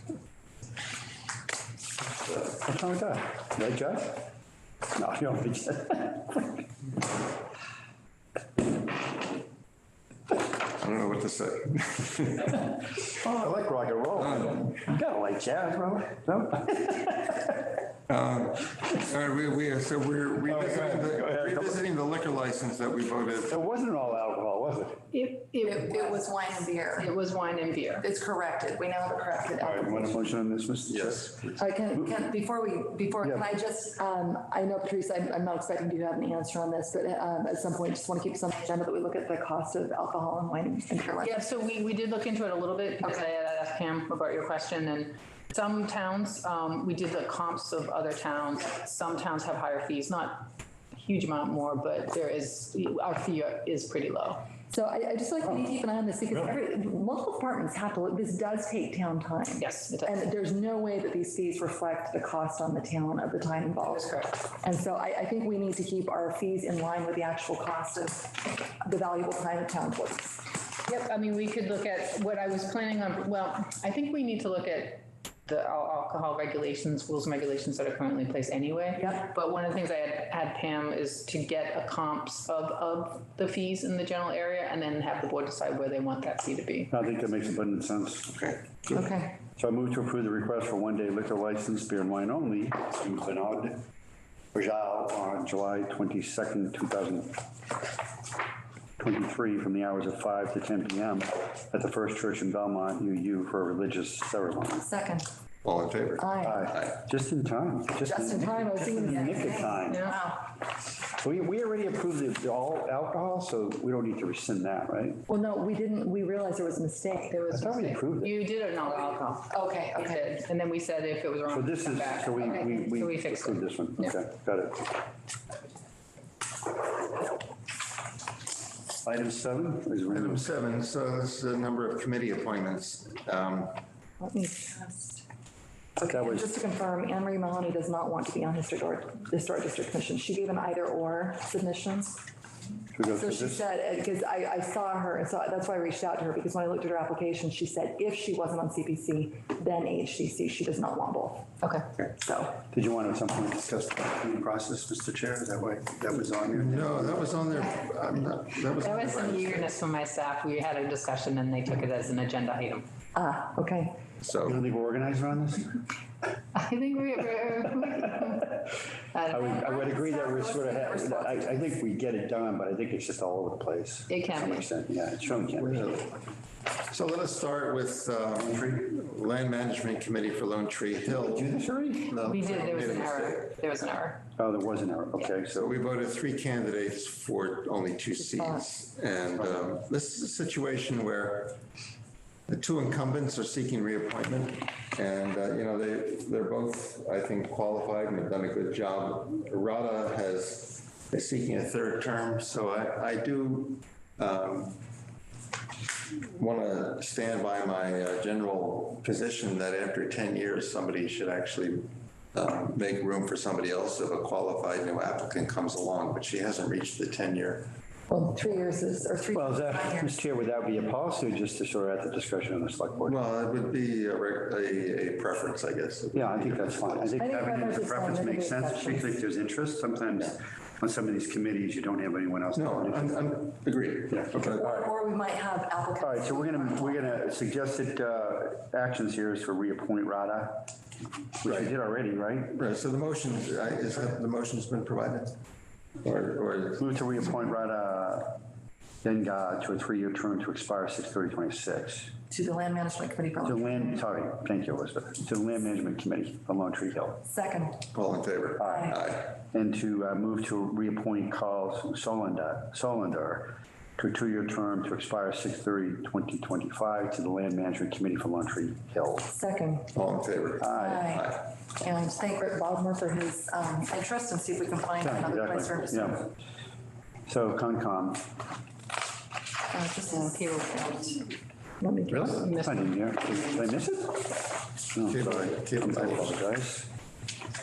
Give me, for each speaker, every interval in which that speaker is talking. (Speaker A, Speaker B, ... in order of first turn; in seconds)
Speaker A: 2.4-4.3, 5.0-6.6, 13.1-17.5, 20.5-21.8, 23.5-25.1, 29.6-31.4, 33.2-33.5, 86.9-88.4, 89.6-93.8, 94.5-97.4, 99.0-104.9, 106.4-110.2, 111.1-115.2, 117.5-118.4, 121.5-124.9, 129.0-130.5, 136.1-136.5, 142.9-143.7, 152.7-157.5, 164.4-165.8, 167.8-168.7, 169.3-175.8, 178.4-178.8, 181.1-182.2, 184.4-185.8, 219.3-223.2, 226.1-233.3, 234.1-234.9, 236.0-240.7, 241.4-242.6, 246.8-248.4, 249.0-252.2, 253.4-257.2, 258.6-269.3, 270.6-271.1, 275.0-276.3, 277.3-278.3, 282.1-286.9
Speaker B: 10.8-12.7, 14.2-14.6, 18.1-23.6, 30.9-31.6, 88.3-89.0, 105.6-107.0, 130.1-133.8, 156.5-159.8, 164.2-164.6, 175.6-176.2, 176.9-183.6, 185.5-191.6, 192.5-204.8, 206.1-217.7, 223.1-227.2, 232.6-234.7, 241.4-241.7, 242.6-245.3, 246.0-246.9, 257.9-259.3, 269.9-271.5, 285.1-286.4
Speaker C: 25.1-26.2, 27.0-28.1, 41.2-54.5, 59.6-60.2, 63.8-64.4, 70.9-86.9, 109.9-110.2, 117.3-124.1, 151.6-151.9, 158.8-162.9, 166.5-168.6, 169.1-169.5, 174.1-174.7, 182.2-184.2, 280.1-281.3, 282.2-283.4
Speaker D: 25.6-27.1, 28.0-30.3, 31.6-41.4, 54.7-70.5, 79.0-79.3, 88.9-89.4, 104.8-105.3, 106.2-106.7, 108.0-110.5, 115.3-117.4, 119.5-120.2, 134.2-135.2, 136.0-142.2, 143.1-152.6, 163.2-164.0, 169.4-171.7, 188.2-188.7, 218.1-220.2, 227.2-229.1, 234.6-237.0, 252.3-254.0, 257.3-257.9, 258.6-259.0, 269.3-269.9, 270.7-276.3, 279.7-281.2, 281.8-282.5